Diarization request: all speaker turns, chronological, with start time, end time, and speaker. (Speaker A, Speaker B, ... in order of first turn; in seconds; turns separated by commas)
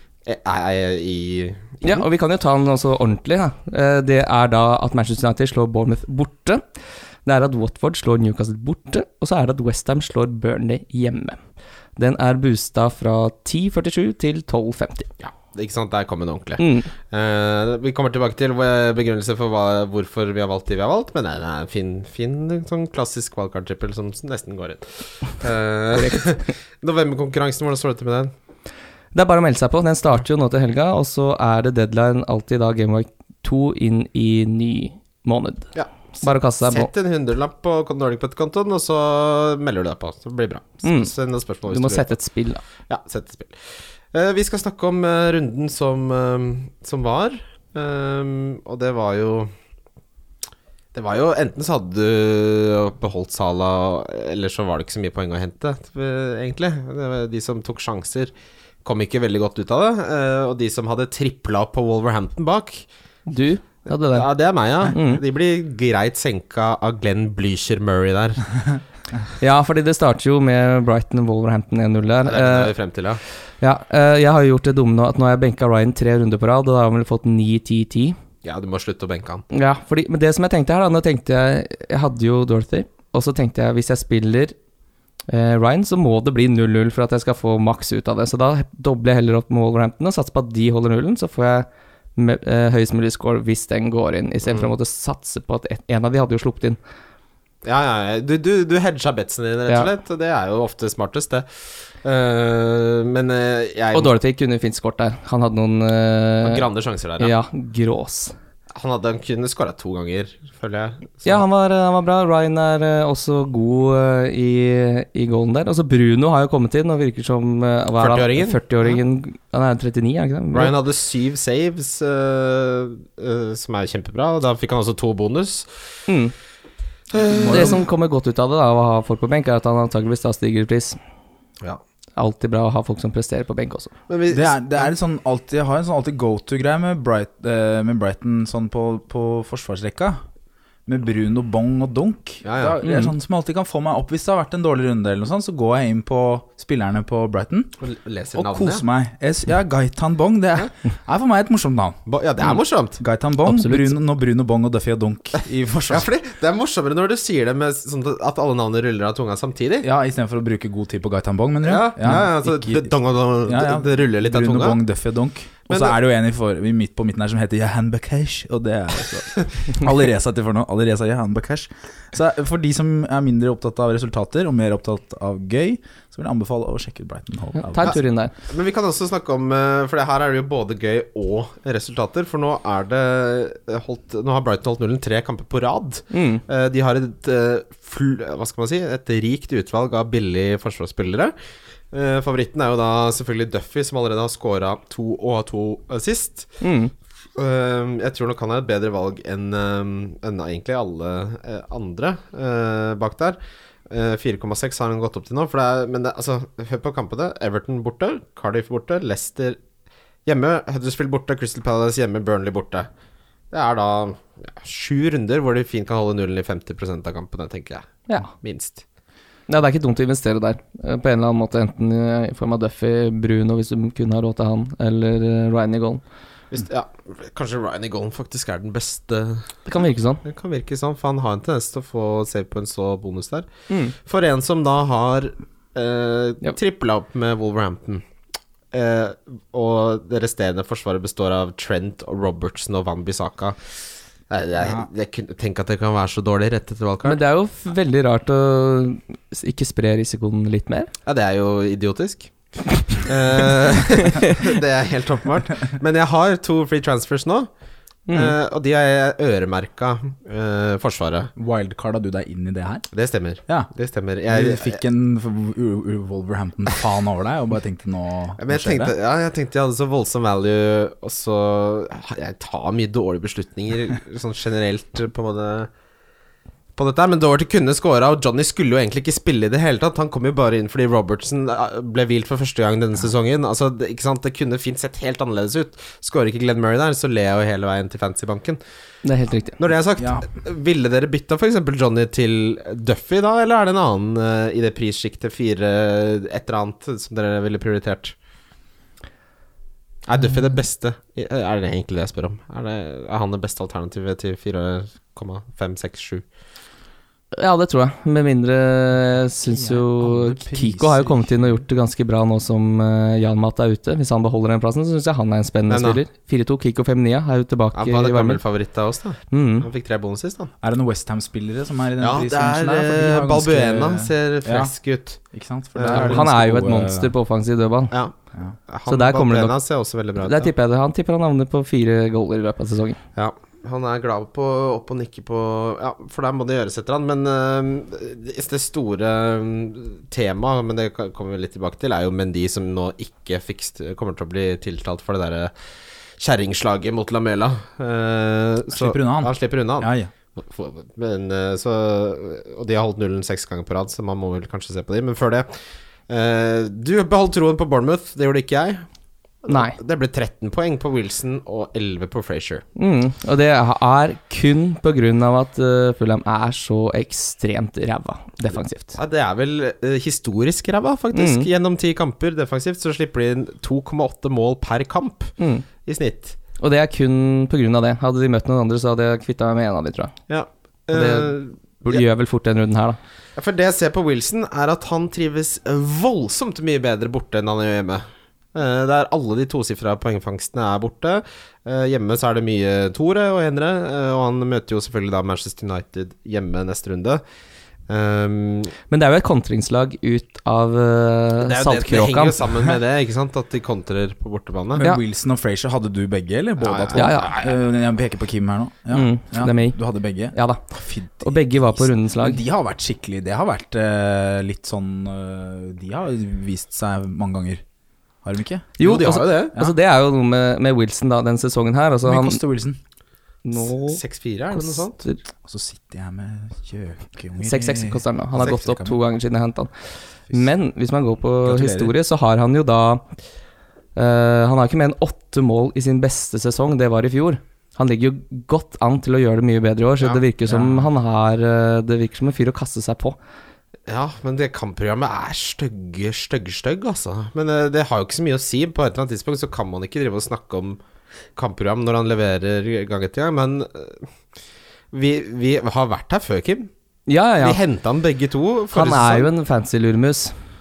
Speaker A: 0.3-2.0, Speaker B: 1.8-6.6, Speaker B: 7.2-11.4, Speaker B: 12.0-15.1, Speaker A: 15.2-28.3, Speaker B: 16.6-16.9, Speaker B: 25.9-26.5, Speaker B: 29.1-36.9, Speaker A: 35.8-42.1, Speaker B: 40.8-41.1, Speaker B: 41.7-42.6, Speaker A: 42.9-49.5, Speaker A: 50.9-58.3, Speaker A: 58.8-62.8, Speaker B: 63.3-64.3, Speaker A: 64.1-68.5, Speaker B: 64.9-65.2, Speaker B: 69.4-72.7, Speaker A: 72.2-73.2, Speaker B: 73.6-78.2, Speaker A: 78.4-79.5, Speaker B: 79.5-84.5, Speaker B: 85.3-96.8, Speaker A: 97.6-101.5, Speaker A: 102.0-104.1, Speaker B: 103.9-106.7, Speaker A: 106.4-107.3, Speaker B: 107.2-108.3, Speaker A: 108.8-111.4, Speaker B: 111.2-120.8, Speaker A: 118.0-119.0, Speaker A: 120.5-125.7, Speaker B: 126.1-126.3, Speaker A: 127.1-127.8, Speaker C: 127.4-127.8, Speaker B: 127.4-131.0, Speaker B: 132.2-133.9, Speaker A: 134.1-134.9, Speaker C: 134.3-140.2, Speaker C: 140.9-147.7, Speaker A: 142.4-142.8, Speaker B: 142.8-143.1, Speaker A: 147.8-148.8, Speaker C: 148.3-156.1, Speaker A: 152.1-153.0, Speaker B: 153.4-153.9, Speaker A: 155.9-159.9, Speaker C: 159.8-162.9, Speaker A: 161.6-164.8, Speaker C: 163.5-178.0, Speaker A: 165.7-166.0, Speaker B: 177.6-178.3, Speaker A: 177.8-191.3, Speaker B: 186.1-186.4, Speaker A: 191.9-196.5, Speaker B: 196.6-196.9, Speaker A: 197.4-203.4, Speaker A: 203.9-209.6, Speaker A: 210.3-212.9, Speaker A: 213.5-218.8, Speaker B: 219.5-226.0, Speaker A: 226.5-229.6, Speaker B: 229.7-230.2, Speaker A: 230.2-238.0, Speaker B: 233.7-233.9, Speaker A: 238.7-243.6, Speaker A: 244.3-247.2, Speaker C: 244.6-244.9, Speaker B: 247.0-250.9, Speaker A: 251.1-252.3, Speaker A: 252.9-257.5, Speaker B: 254.1-254.4, Speaker B: 258.1-258.4, Speaker A: 258.1-261.3, Speaker C: 261.4-262.9, Speaker A: 262.9-264.8, Speaker C: 264.3-268.9, Speaker A: 268.4-275.7, Speaker A: 276.8-288.6, Speaker B: 289.0-289.6, Speaker A: 289.6-298.1, Speaker C: 290.0-290.3, Speaker A: 300.1-306.2, Speaker B: 307.3-318.4, Speaker C: 309.4-311.6, Speaker A: 315.7-316.0, Speaker A: 317.8-320.5, Speaker B: 319.3-319.7, Speaker C: 320.6-324.7, Speaker A: 322.0-325.2, Speaker C: 325.3-327.1, Speaker A: 325.8-326.2, Speaker B: 325.9-327.9, Speaker A: 328.7-330.5, Speaker B: 328.9-329.6, Speaker B: 330.2-333.0, Speaker A: 333.2-345.5, Speaker A: 346.2-355.5, Speaker C: 348.7-350.1, Speaker A: 356.1-358.8, Speaker A: 359.4-362.6, Speaker B: 359.5-359.8, Speaker B: 362.8-369.0, Speaker A: 369.0-375.3, Speaker B: 371.1-371.5, Speaker B: 375.4-375.6, Speaker A: 375.9-376.4, Speaker B: 376.6-380.1, Speaker A: 380.3-382.0, Speaker B: 380.9-383.0, Speaker A: 383.4-397.2, Speaker A: 397.9-398.7, Speaker B: 398.9-402.4, Speaker A: 401.4-404.8, Speaker C: 404.8-417.6, Speaker A: 406.6-407.6, Speaker B: 406.9-407.4, Speaker B: 408.9-409.8, Speaker B: 410.3-410.6, Speaker B: 411.2-412.4, Speaker C: 418.2-418.8, Speaker B: 418.8-422.4, Speaker A: 418.8-419.5, Speaker C: 422.0-422.8, Speaker B: 423.4-424.0, Speaker A: 423.6-425.0, Speaker B: 424.5-425.2, Speaker C: 425.4-429.0, Speaker B: 427.4-429.7, Speaker B: 430.3-433.0, Speaker C: 431.4-431.9, Speaker B: 433.9-443.2, Speaker C: 440.5-440.9, Speaker A: 443.9-450.8, Speaker A: 451.4-454.1, Speaker A: 454.9-456.7, Speaker B: 457.1-457.6, Speaker A: 457.4-459.3, Speaker B: 458.7-460.3